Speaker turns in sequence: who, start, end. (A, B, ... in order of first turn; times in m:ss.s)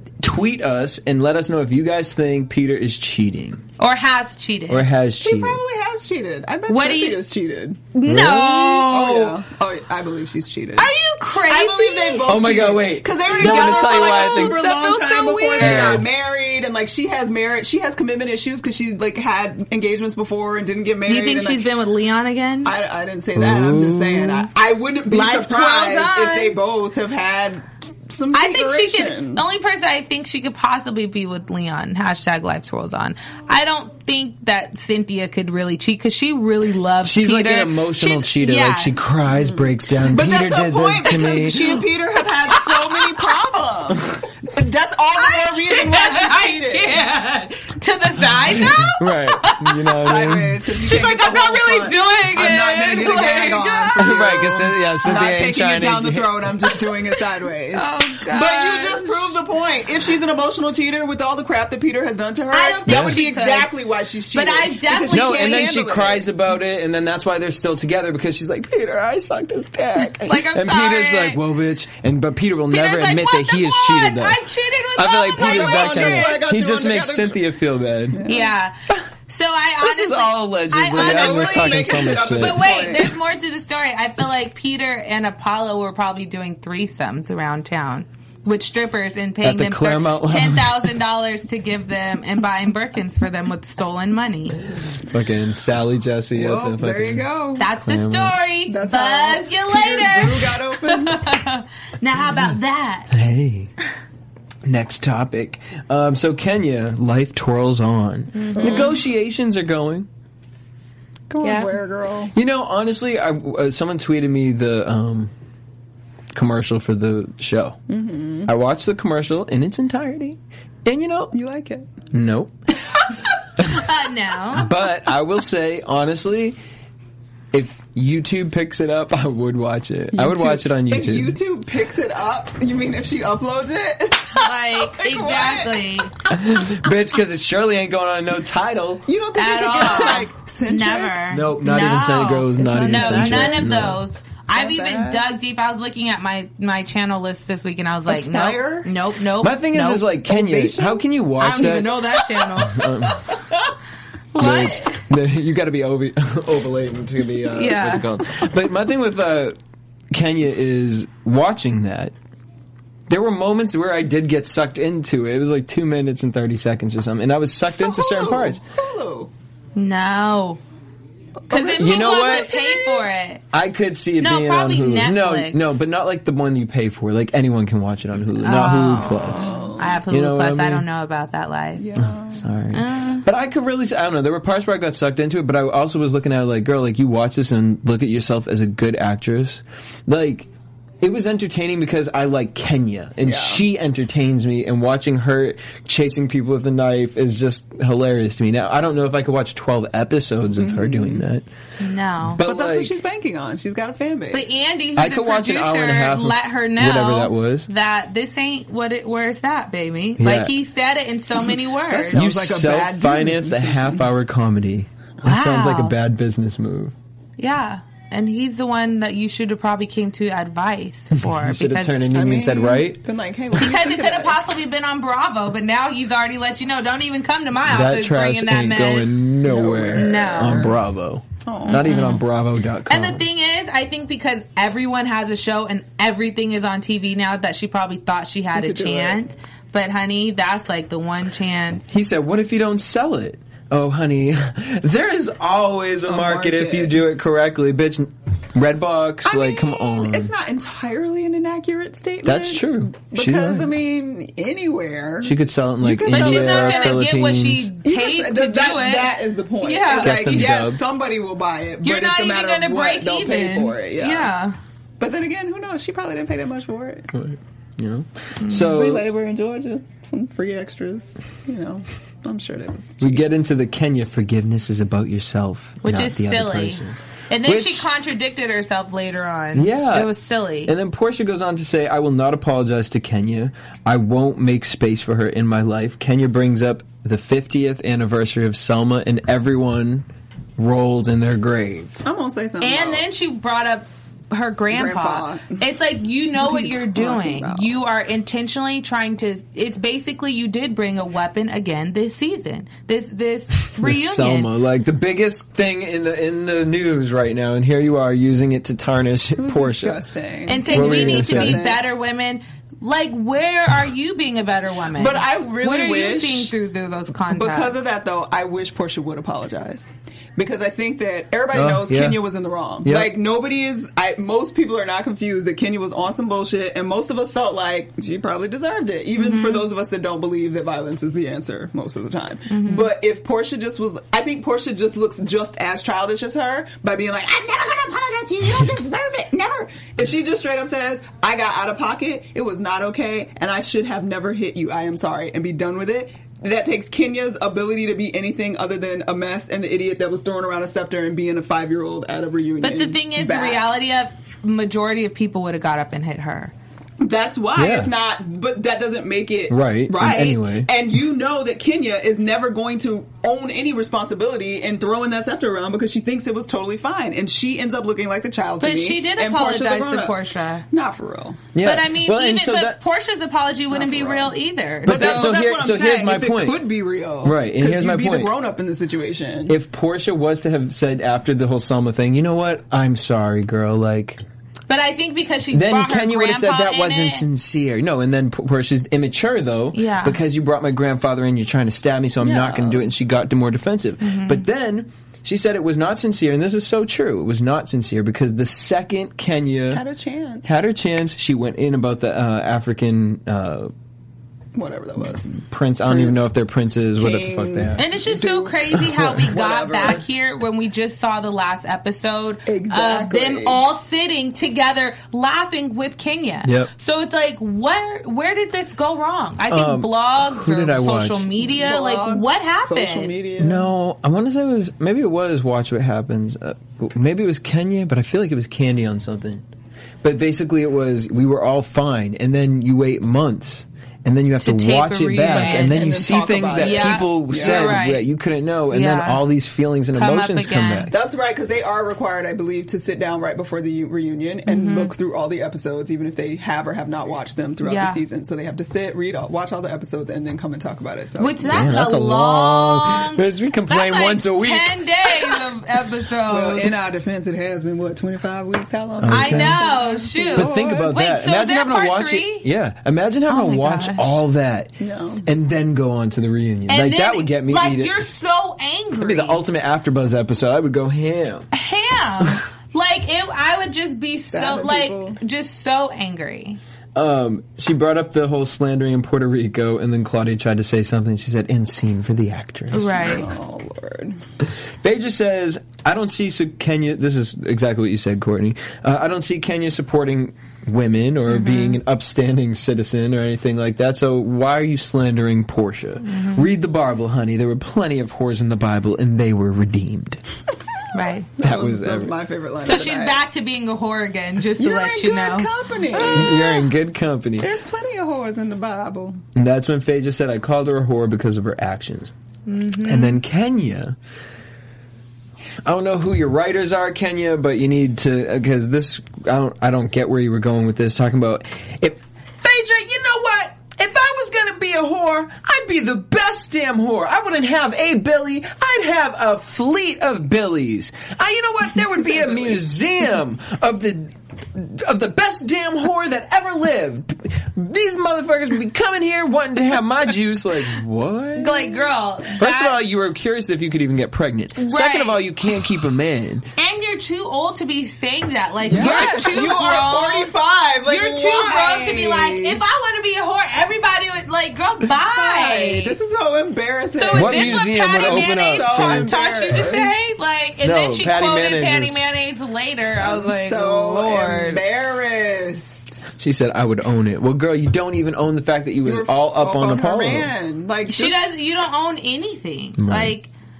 0:00.2-0:03.6 A
0:03.8-0:04.8 B
0:04.7-0:05.6 A
0:05.2-0:07.8 C
0:06.7-0:07.2 B
0:07.9-0:09.3 B
0:08.0-0:08.9 A
0:08.8-0:10.9 C
0:10.8-0:12.3 B
0:11.4-0:21.7 C
0:12.2-0:14.6 A
0:13.4-0:16.0 B
0:15.6-0:16.1 A
0:21.0-0:22.7 B
0:22.6-0:29.4 C
0:23.3-0:24.5 A
0:25.1-0:26.6 B
0:28.3-0:39.0 B
0:37.0-0:41.8 A
0:40.0-0:46.9 C
0:42.5-0:43.0 B
0:45.2-0:49.9 B
0:48.6-0:50.6 A
0:50.0-1:06.2 C
0:50.8-0:54.7 B
0:54.0-0:56.5 A
0:57.7-0:59.4 B
1:02.5-1:03.7 B
1:02.8-1:03.2 A
1:04.3-1:05.6 B
1:05.1-1:14.4 A
1:10.2-1:11.4 B
1:12.7-1:16.4 B
1:15.0-1:18.2 A
1:15.3-1:17.4 C
1:18.1-1:18.5 C
1:18.2-1:18.7 B
1:19.3-1:34.6 B
1:19.8-1:22.7 A
1:20.9-1:23.1 C
1:29.4-1:30.9 A
1:35.1-1:37.2 A
1:36.4-1:37.7 C
1:37.6-1:43.1 B
1:37.8-1:38.4 A
1:38.7-1:41.3 C
1:43.1-1:43.7 A
1:44.6-1:50.1 A
1:48.3-1:49.0 B
1:48.6-1:48.9 C
1:51.3-1:52.3 C
1:51.4-1:51.7 B
1:52.3-1:55.3 A
1:56.3-1:57.8 A
1:57.9-1:58.5 C
1:58.4-2:01.3 A
2:01.3-2:01.9 C
2:02.1-2:02.6 A
2:03.6-2:03.8 A
2:03.6-2:04.7 B
2:04.5-2:06.6 A
2:07.5-2:11.4 A
2:10.1-2:15.9 C
2:14.4-2:16.1 B
2:16.3-2:19.1 A
2:19.0-2:21.2 C
2:19.4-2:30.0 B
2:21.3-2:24.0 A
2:22.6-2:23.7 C
2:24.5-2:25.2 C
2:28.1-2:28.9 C
2:29.4-2:32.0 A
2:30.3-2:33.1 C
2:31.4-2:32.8 B
2:32.6-2:33.2 A
2:34.3-2:34.9 B
2:34.4-2:39.6 A
2:37.5-2:38.1 B
2:40.1-2:42.1 A
2:43.1-2:48.6 A
2:47.7-2:49.3 C
2:49.8-2:50.6 B
2:51.4-2:53.1 C
2:51.5-2:53.4 B
2:51.7-2:52.5 A
2:53.5-3:00.8 A
2:54.2-2:55.8 B
2:58.4-3:01.8 B
2:59.1-3:00.0 C
3:01.8-3:02.5 C
3:02.0-3:10.5 A
3:02.7-3:03.2 B
3:11.0-3:21.4 A
3:13.2-3:13.6 C
3:20.6-3:21.2 C
3:21.8-3:22.4 B
3:22.2-3:23.0 A
3:22.4-3:24.5 C
3:24.3-3:32.2 B
3:25.0-3:27.7 A
3:30.2-3:30.5 A
3:31.8-3:34.1 C
3:32.1-3:36.9 A
3:35.2-3:35.9 B
3:37.4-3:42.0 B
3:41.2-3:43.0 A
3:42.1-3:44.4 C
3:43.6-3:49.2 B
3:47.6-3:53.2 A
3:49.4-3:50.8 C
3:49.9-3:50.7 B
3:51.4-3:52.1 C
3:51.6-3:52.2 B
3:52.9-4:01.8 B
3:58.5-3:59.2 C
4:01.9-4:10.3 A
4:06.0-4:07.0 C
4:09.2-4:17.0 C
4:12.2-4:13.7 A
4:15.2-4:17.7 A
4:16.1-4:20.7 B
4:17.8-4:24.3 C
4:19.9-4:20.8 A
4:21.8-4:24.5 B
4:25.0-4:27.1 C
4:27.1-4:29.0 A
4:28.5-4:33.2 C
4:33.0-4:37.9 A
4:35.8-4:40.7 B
4:39.5-4:40.1 A
4:40.6-4:52.0 A
4:52.0-4:53.0 C
4:52.6-5:04.5 B
4:54.7-4:55.6 C
4:56.4-4:57.7 C
5:03.8-5:10.0 A
5:09.4-5:11.8 C
5:10.5-5:17.8 B
5:10.7-5:11.6 A
5:14.9-5:16.5 C
5:17.3-5:53.7 C
5:21.5-5:22.2 A
5:22.8-5:23.2 A
5:29.2-5:29.6 B
5:32.5-5:32.9 B
5:52.6-5:56.5 B
5:57.0-6:11.4 C
5:57.5-5:57.9 A
5:59.5-6:00.7 A
6:08.6-6:10.6 B
6:11.5-6:12.8 A
6:11.6-6:15.4 B
6:13.7-6:19.6 C
6:14.8-6:16.6 A
6:17.2-6:18.3 A
6:19.5-6:24.2 A
6:24.7-6:27.2 B
6:25.5-6:39.8 A
6:29.7-6:30.2 B
6:32.2-6:32.9 C
6:34.0-6:34.4 B
6:39.7-6:40.5 C
6:40.4-6:43.7 A
6:44.5-6:46.2 C
6:45.4-6:47.8 A
6:47.0-6:50.0 C
6:47.8-7:03.1 B
6:48.7-6:49.9 A
6:52.4-6:53.7 C
6:56.4-6:56.7 A
6:59.5-7:01.3 A
7:01.4-7:03.7 C
7:03.4-7:09.4 A
7:10.0-7:20.9 A
7:14.4-7:16.0 B
7:15.2-7:17.8 C
7:16.5-7:18.0 B
7:18.7-7:19.2 B
7:19.9-7:20.9 B
7:20.9-7:31.8 C
7:24.4-7:24.9 B
7:27.6-7:28.0 B
7:31.2-7:36.7 B
7:31.4-7:34.8 A
7:36.2-7:40.9 C
7:39.0-7:39.6 A
7:39.1-7:42.5 B
7:40.3-7:47.9 A
7:43.3-7:44.2 B
7:44.8-7:45.3 C
7:46.7-7:49.4 B
7:49.0-7:51.5 A
7:51.5-7:56.6 B
7:54.3-7:55.2 C
7:56.9-8:03.2 A
8:02.7-8:03.3 B
8:03.0-8:04.2 C
8:04.4-8:20.2 A
8:11.3-8:11.8 B
8:16.0-8:16.5 B
8:20.9-8:21.3 B
8:21.4-8:23.2 C
8:21.4-8:22.1 A
8:22.6-8:26.3 B
8:24.6-8:26.6 C
8:26.0-8:27.5 A
8:27.4-8:29.2 C
8:29.3-8:32.1 A
8:32.5-8:33.2 B
8:32.8-8:34.0 A
8:35.6-9:06.5 A
9:01.4-9:02.8 B
9:04.6-9:05.2 B
9:06.6-9:10.3 B
9:08.6-9:12.6 C
9:08.7-9:09.2 A
9:10.8-9:16.0 B
9:14.9-9:19.9 C
9:17.0-9:24.6 B
9:17.1-9:19.1 A
9:20.6-9:22.1 A
9:23.0-9:26.0 C
9:26.2-9:30.3 A
9:28.8-9:31.2 C
9:30.8-9:33.3 B
9:32.8-9:33.2 A